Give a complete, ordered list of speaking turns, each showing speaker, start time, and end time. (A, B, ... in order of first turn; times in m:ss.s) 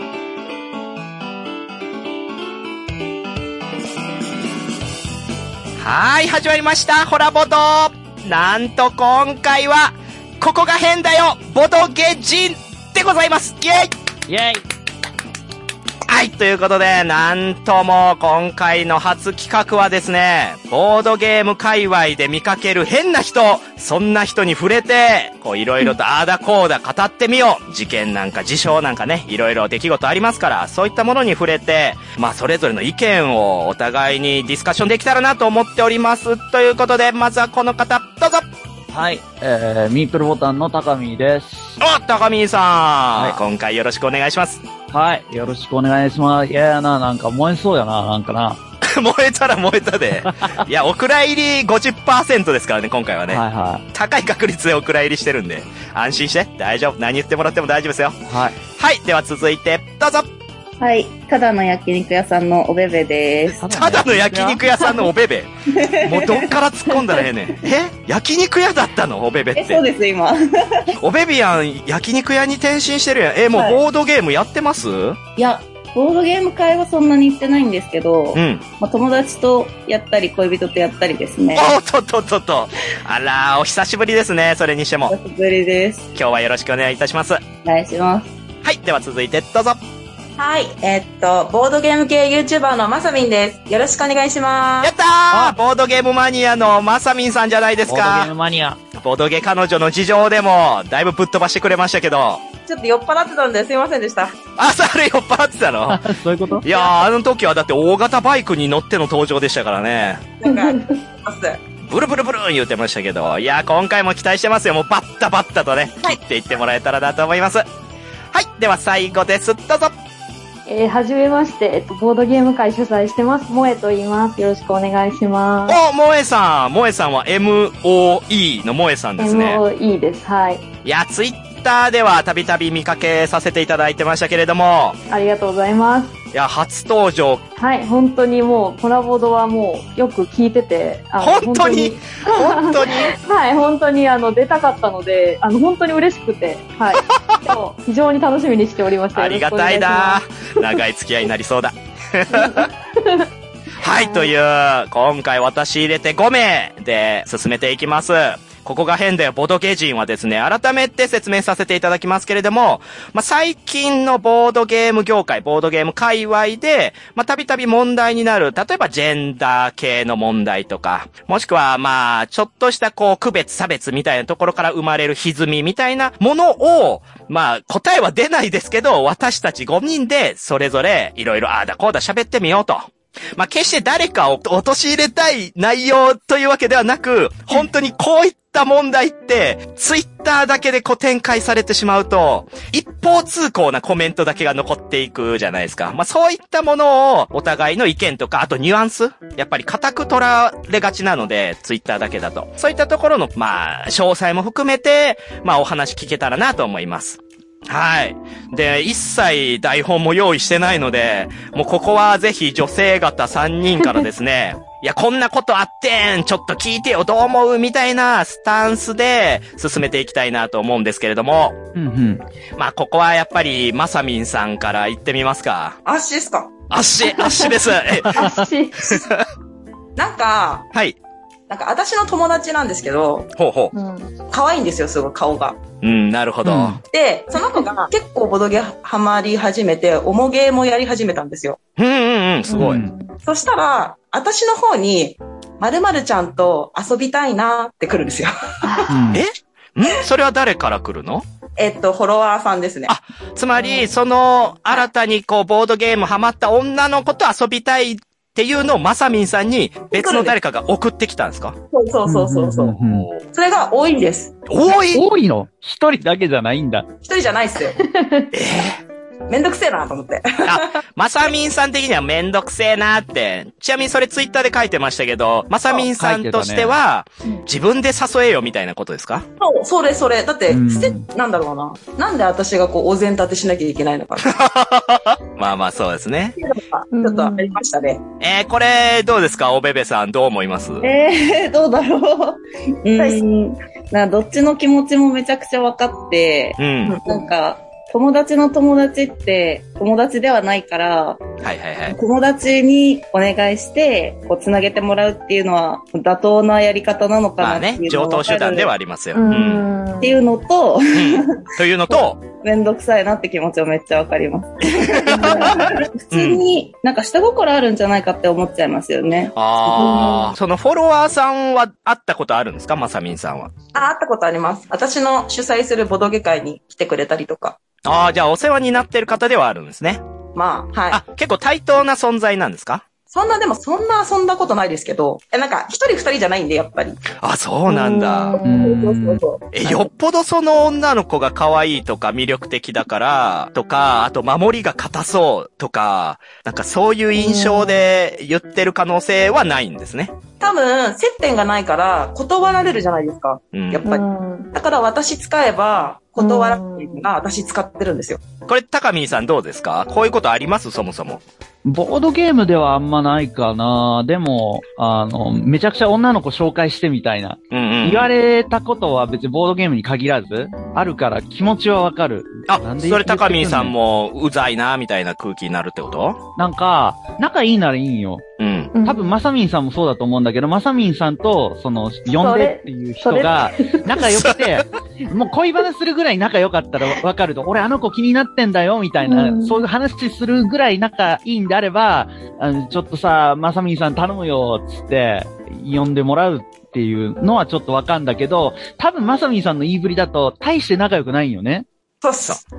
0:05.8-0:13.9 A
0:14.3-0:14.6 B
0:16.1-0:38.5 A
0:38.9-0:41.8 B
0:41.8-0:44.6 A
0:43.2-0:43.4 B
0:44.9-0:48.6 B
0:48.8-0:58.2 A
0:50.3-0:50.6 B
0:53.3-0:53.8 B
0:58.3-0:58.6 B
0:58.8-1:00.3 A
1:00.8-1:03.7 C
1:03.6-1:04.6 B
1:03.7-1:09.8 A
1:05.8-1:06.5 C
1:09.6-1:11.0 C
1:11.0-1:15.2 A
1:13.5-1:13.8 C
1:15.4-1:21.7 C
1:18.3-1:18.6 A
1:21.6-1:25.1 A
1:25.1-1:26.1 C
1:26.2-1:27.4 A
1:27.6-1:28.3 C
1:28.6-1:29.8 A
1:30.4-1:34.9 D
1:34.8-1:38.3 A
1:35.3-1:35.6 B
1:37.9-1:38.8 B
1:39.0-1:42.4 A
1:42.7-1:44.4 D
1:44.6-1:46.1 A
1:45.9-1:46.6 B
1:46.6-1:50.2 A
1:50.4-1:51.6 D
1:50.5-1:50.8 E
1:51.8-1:57.7 A
1:58.3-2:00.0 A
2:00.7-2:05.8 E
2:05.7-2:09.6 A
2:09.2-2:10.6 E
2:10.8-2:15.0 A
2:15.1-2:16.2 E
2:16.3-2:17.4 A
2:17.6-2:30.6 E
2:21.2-2:23.2 A
2:27.0-2:27.5 A
2:29.1-2:32.7 A
2:32.3-2:33.3 E
2:33.8-3:41.6 A
2:33.9-2:34.3 E
3:41.8-3:42.2 B
3:42.6-3:45.8 A
3:45.8-3:46.5 D
3:46.7-3:49.2 A
3:47.1-3:47.6 E
3:48.0-3:48.4 B
3:48.2-3:49.0 E
3:50.0-3:50.7 D
3:51.5-3:53.3 D
3:53.4-3:53.7 A
3:53.7-3:54.1 E
3:54.3-3:55.6 D
3:55.8-3:56.8 A
3:56.4-3:56.8 B
3:56.9-4:01.6 D
4:01.8-4:02.9 A
4:02.5-4:03.1 E
4:02.6-4:03.0 B
4:03.2-4:08.9 D
4:08.6-4:09.1 E
4:08.9-4:09.2 B
4:09.1-4:11.2 A
4:11.6-4:12.9 D
4:12.9-4:21.6 A
4:13.6-4:13.9 E
4:19.9-4:20.4 D
4:21.7-4:24.4 D
4:22.1-4:23.1 B
4:22.9-4:23.2 A
4:24.5-4:25.1 A
4:24.9-4:26.9 B
4:27.0-4:27.8 D
4:27.8-4:28.3 E
4:28.3-4:28.8 A
4:29.3-4:30.8 D
4:30.4-4:39.2 A
4:36.0-4:36.8 B
4:39.4-4:44.3 D
4:40.5-4:41.0 B
4:44.2-4:46.4 A
4:46.4-4:48.0 D
4:46.9-4:47.6 E
4:48.2-4:50.9 A
4:50.8-5:01.2 C
4:53.0-4:53.2 D
4:56.6-4:57.0 A
4:56.9-4:57.3 D
5:01.4-5:02.0 A
5:01.9-5:08.7 C
5:07.4-5:09.7 A
5:09.1-5:10.2 E
5:10.0-5:20.3 C
5:10.9-5:12.2 A
5:14.7-5:16.4 A
5:19.4-5:23.5 A
5:19.8-5:20.3 E
5:23.7-5:27.6 D
5:27.8-5:30.0 A
5:30.4-5:31.0 D
5:30.9-5:32.8 A
5:33.1-5:37.0 D
5:37.1-5:38.4 A
5:37.7-5:38.7 E
5:38.4-5:39.2 B
5:38.6-5:39.9 D
5:39.5-5:50.2 A
5:47.2-5:47.9 E
5:50.4-5:58.2 D
5:53.5-5:53.8 A
5:53.8-5:54.5 E
5:56.2-5:57.1 E
5:58.5-6:01.2 A
6:01.6-6:13.8 B
6:07.5-6:08.1 A
6:12.5-6:16.2 A
6:16.4-6:18.2 B
6:18.4-6:18.7 A
6:18.7-6:19.2 E
6:18.8-6:41.7 B
6:22.1-6:24.0 E
6:24.2-6:24.6 A
6:29.0-6:29.6 E
6:42.0-6:42.4 D